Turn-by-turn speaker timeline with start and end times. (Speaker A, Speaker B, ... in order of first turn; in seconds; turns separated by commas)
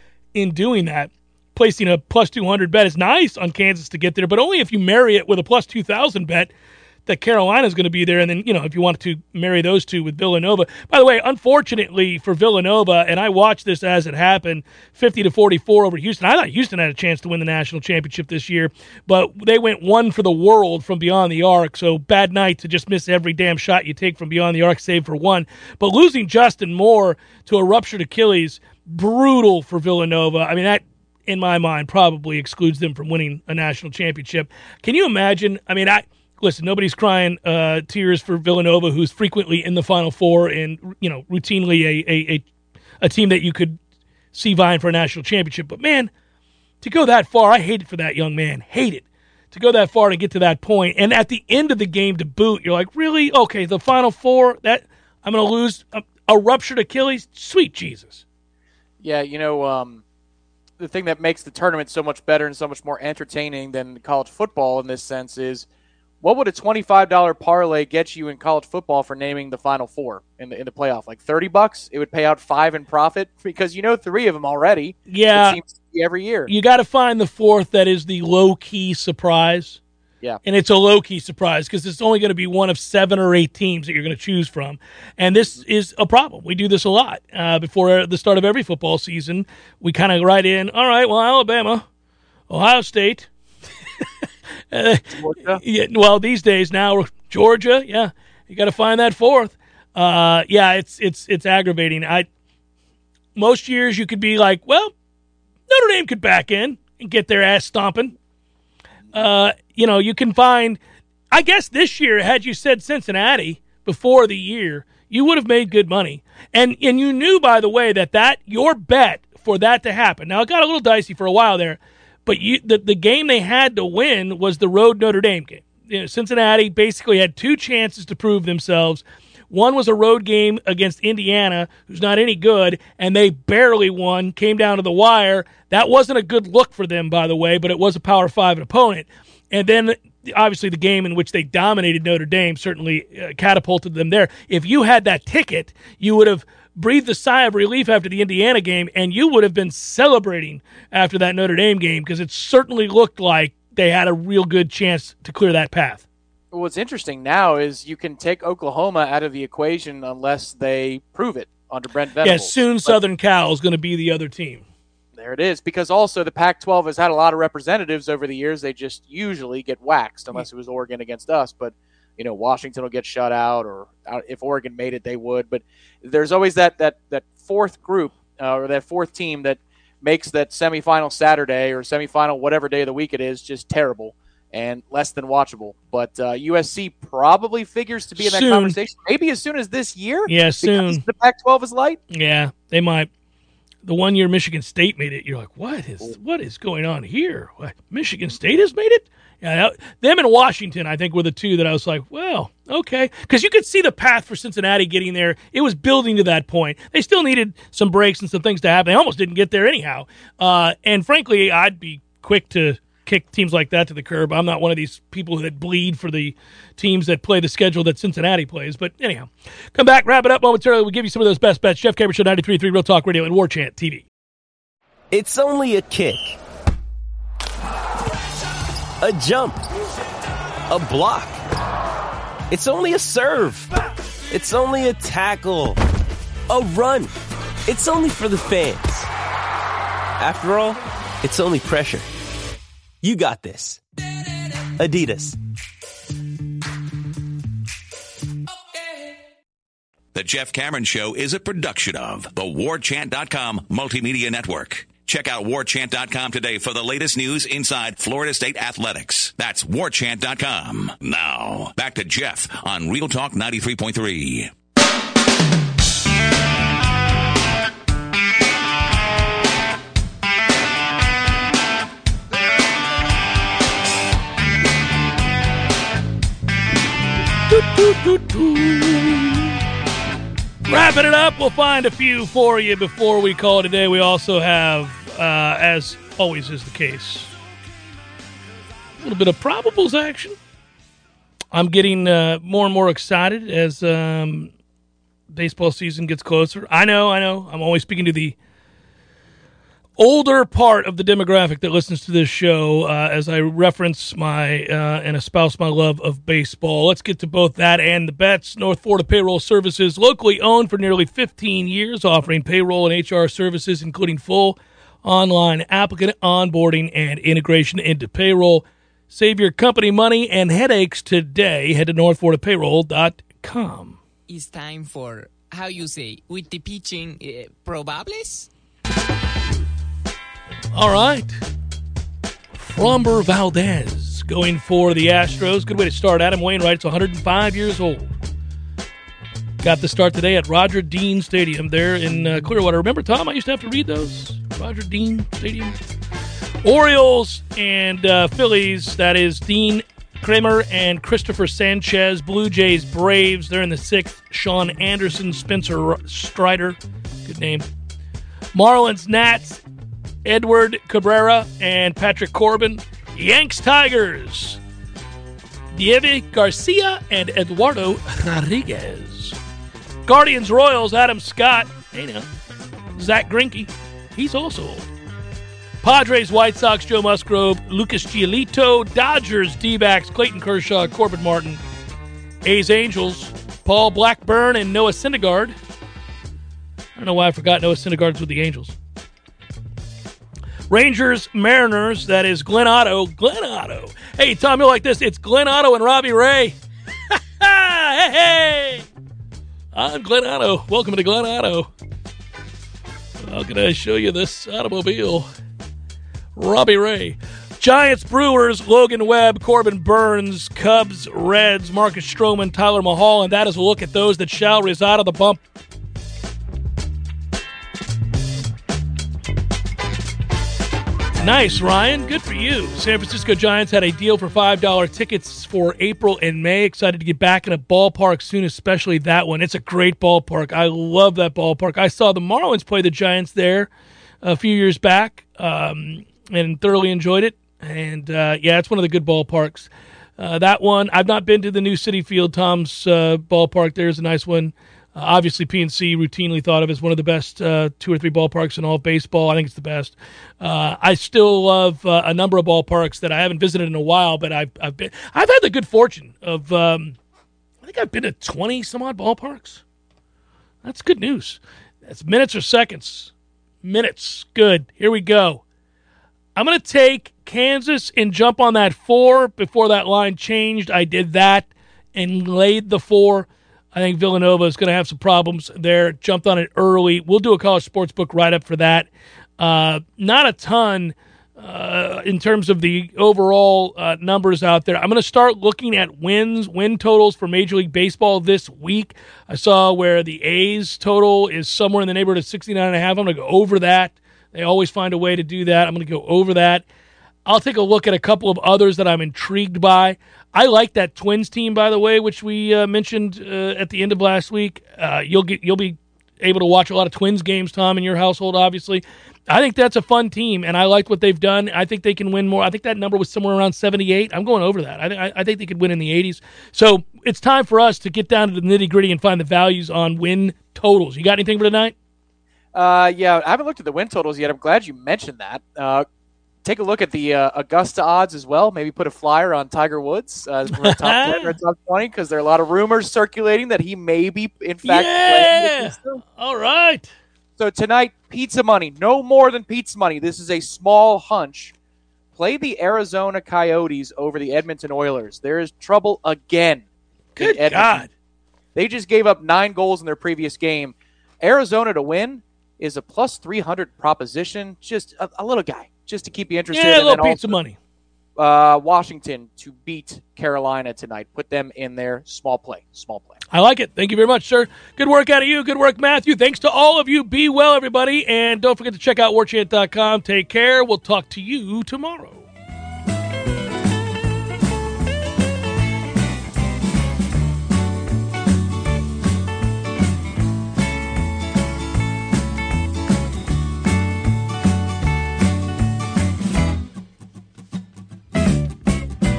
Speaker A: 0.3-6.5, Speaker A: 7.0-42.4, Speaker A: 43.0-43.8, Speaker A: 44.3-46.1, Speaker A: 46.8-58.2, Speaker B: 59.0-60.0, Speaker B: 60.8-65.7, Speaker B: 66.2-76.5, Speaker A: 75.1-75.6, Speaker A: 76.5-79.8, Speaker A: 80.4-91.8, Speaker A: 92.5-93.3, Speaker A: 94.7-102.3, Speaker B: 95.1-95.6, Speaker A: 103.3-104.9, Speaker A: 105.7-108.1, Speaker A: 109.1-110.8, Speaker A: 111.3-156.0, Speaker B: 156.5-163.0, Speaker A: 162.2-164.6, Speaker B: 165.2-192.0, Speaker A: 188.2-188.8, Speaker A: 190.3-191.0, Speaker A: 192.1-193.1, Speaker A: 193.8-224.0, Speaker C: 225.1-226.4, Speaker C: 229.0-229.6, Speaker C: 230.7-231.4, Speaker C: 232.5-233.7, Speaker C: 234.3-235.8, Speaker C: 236.5-237.1, Speaker C: 237.7-239.1, Speaker C: 240.2-242.1, Speaker C: 243.0-243.8, Speaker C: 244.8-245.4, Speaker D: 250.1-264.5, Speaker A: 277.5-279.6, Speaker A: 280.6-287.3, Speaker A: 289.0-290.4, Speaker A: 291.5-294.5, Speaker A: 295.3-298.4, Speaker A: 300.0-324.0, Speaker E: 324.3-328.5, Speaker A: 330.7-331.4, Speaker A: 332.6-338.1, Speaker A: 339.6-345.7, Speaker A: 346.6-357.6, Speaker A: 358.5-359.6, Speaker A: 360.2-364.6, Speaker A: 365.7-369.4, Speaker A: 370.1-372.3, Speaker A: 372.9-374.9, Speaker A: 375.8-381.6, Speaker A: 382.4-385.5, Speaker A: 386.9-388.7, Speaker A: 390.7-396.6, Speaker A: 397.1-398.8, Speaker A: 399.7-401.7, Speaker A: 403.2-405.2, Speaker A: 406.4-415.4, Speaker A: 421.2-433.7, Speaker A: 434.2-456.9, Speaker A: 457.6-459.6, Speaker A: 460.6-463.1, Speaker A: 463.6-465.4, Speaker A: 466.4-496.6, Speaker A: 497.2-521.7, Speaker B: 522.5-525.8, Speaker B: 526.4-536.0, Speaker A: 530.5-531.4, Speaker A: 534.6-536.9, Speaker B: 537.4-541.5, Speaker B: 542.1-546.6, Speaker A: 547.1-547.9, Speaker B: 547.2-547.8, Speaker B: 548.5-557.3, Speaker A: 556.5-557.6, Speaker B: 558.2-563.2, Speaker A: 563.3-572.2